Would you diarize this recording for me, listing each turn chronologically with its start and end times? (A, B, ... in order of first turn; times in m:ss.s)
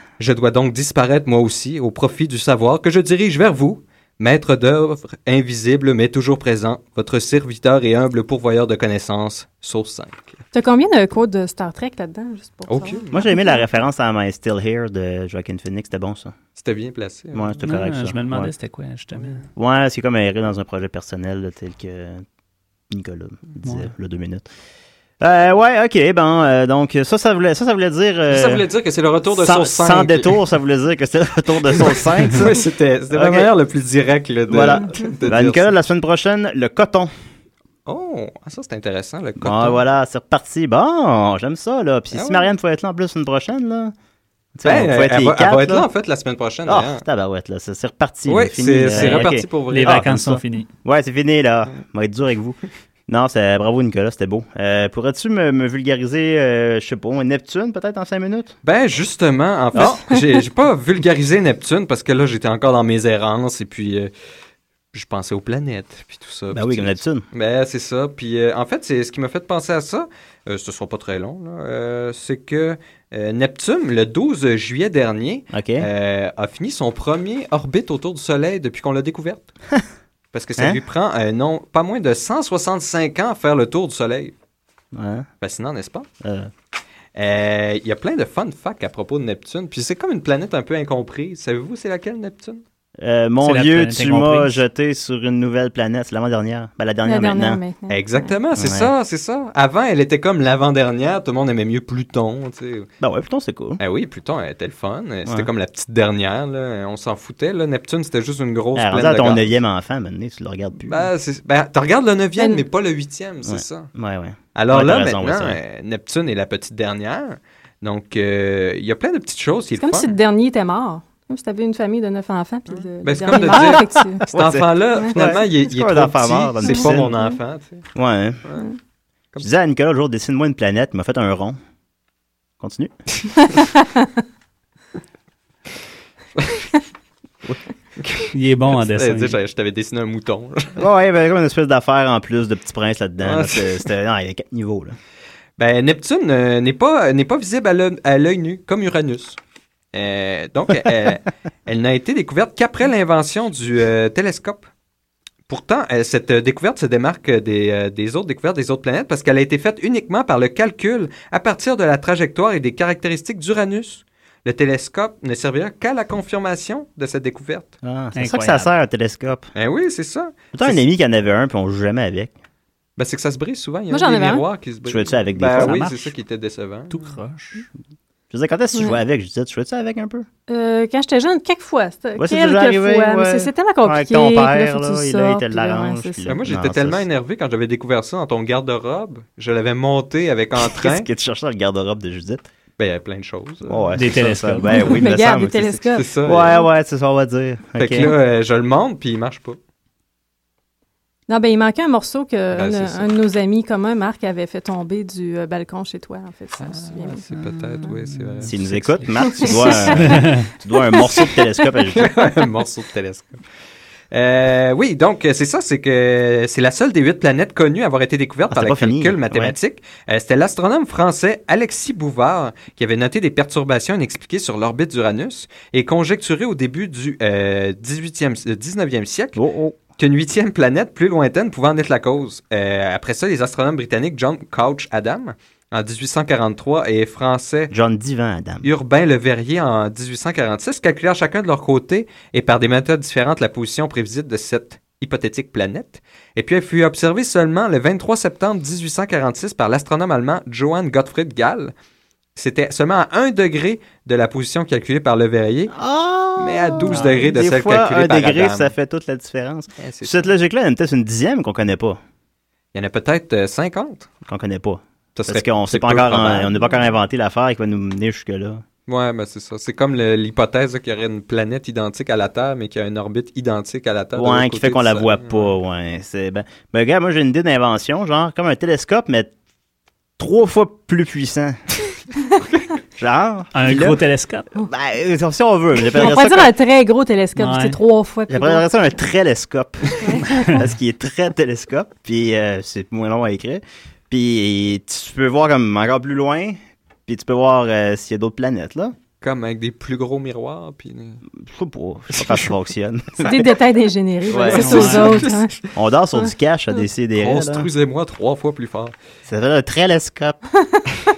0:00.2-0:10.4 A
0:10.5-0:13.6 B
0:12.7-0:13.2 A
0:13.1-0:16.3 C
0:16.6-0:17.6 A
0:17.3-0:18.5 C
0:17.6-0:19.4 D
0:19.6-0:22.2 C
0:22.9-0:24.4 C
0:25.2-0:28.6 C
0:28.3-0:30.4 A
0:29.3-0:33.5 C
0:31.7-0:35.7 A
0:34.5-0:37.1 C
0:37.8-0:39.8 A
0:39.4-0:43.9 C
0:42.1-0:42.5 A
0:44.5-0:45.9 C
0:44.6-0:47.0 A
0:46.7-0:58.5 C
0:48.3-0:50.1 A
0:48.9-0:50.7 D
0:58.6-1:04.1 A
0:59.7-1:00.0 C
1:04.9-1:19.5 A
1:06.5-1:07.2 C
1:15.5-1:15.9 C
1:20.3-1:24.3 A
1:24.9-1:25.3 C
1:25.4-1:26.1 A
1:26.2-1:26.5 C
1:27.2-1:32.6 A
1:33.0-1:37.6 C
1:33.4-1:34.6 D
1:37.0-1:38.3 B
1:37.9-1:42.9 A
1:38.6-1:38.9 C
1:43.0-1:43.8 C
1:43.8-1:49.5 A
1:48.7-1:51.1 C
1:50.8-1:53.9 A
1:52.4-1:52.6 B
1:53.4-1:55.6 C
1:54.5-2:00.2 A
1:59.8-2:04.2 B
2:02.7-2:07.8 A
2:03.3-2:07.1 C
2:05.0-2:05.4 B
2:06.6-2:07.3 B
2:07.9-2:08.4 C
2:09.4-2:11.6 C
2:12.6-2:12.9 C
2:16.4-2:16.6 A
2:18.0-2:20.8 A
2:18.3-2:19.4 D
2:20.8-2:25.0 C
2:23.2-2:23.8 A
2:25.6-2:29.4 A
2:29.9-2:34.6 A
2:35.5-2:47.7 A
2:47.8-2:49.4 C
2:48.1-2:48.7 D
2:49.5-2:50.8 A
2:50.5-2:52.3 C
2:53.0-2:57.1 A
2:53.9-2:54.4 B
2:54.8-2:55.8 C
2:55.6-2:56.1 D
2:56.9-2:57.6 D
2:58.3-3:00.3 C
3:00.5-3:06.2 B
3:02.2-3:07.0 C
3:06.2-3:11.1 A
3:10.6-3:12.4 C
3:12.8-3:14.0 A
3:13.6-3:18.2 C
3:13.9-3:15.0 D
3:14.6-3:16.7 B
3:15.9-3:16.6 A
3:17.8-3:19.6 A
3:21.3-3:27.2 B
3:22.5-3:23.1 A
3:26.6-3:28.5 A
3:27.4-3:30.5 D
3:28.4-3:32.2 C
3:29.3-3:30.1 B
3:31.0-3:31.4 B
3:31.9-3:33.4 A
3:34.1-3:49.4 A
3:38.5-3:39.6 C
3:49.4-3:49.8 C
3:50.0-3:57.7 A
3:57.7-3:58.7 C
3:58.6-4:11.7 A
4:12.4-4:15.7 A
4:15.7-4:22.0 C
4:16.4-4:18.7 A
4:19.8-4:20.3 A
4:22.7-4:24.1 A
4:24.3-4:28.6 C
4:25.2-4:26.8 A
4:28.9-4:35.5 A
4:34.1-4:39.3 C
4:40.2-4:41.6 C
4:43.0-4:44.0 C
4:43.5-4:44.5 D
4:44.6-4:46.5 C
4:45.9-4:48.6 B
4:47.4-4:47.8 D
4:48.3-4:59.0 C
4:50.0-4:50.7 B
4:59.2-5:01.2 A
5:01.3-5:03.4 C
5:02.2-5:02.5 A
5:03.2-5:05.5 B
5:04.3-5:05.0 C
5:04.5-5:05.2 D
5:04.6-5:05.4 A
5:05.7-5:07.7 C
5:07.2-5:08.9 A
5:09.2-5:10.4 C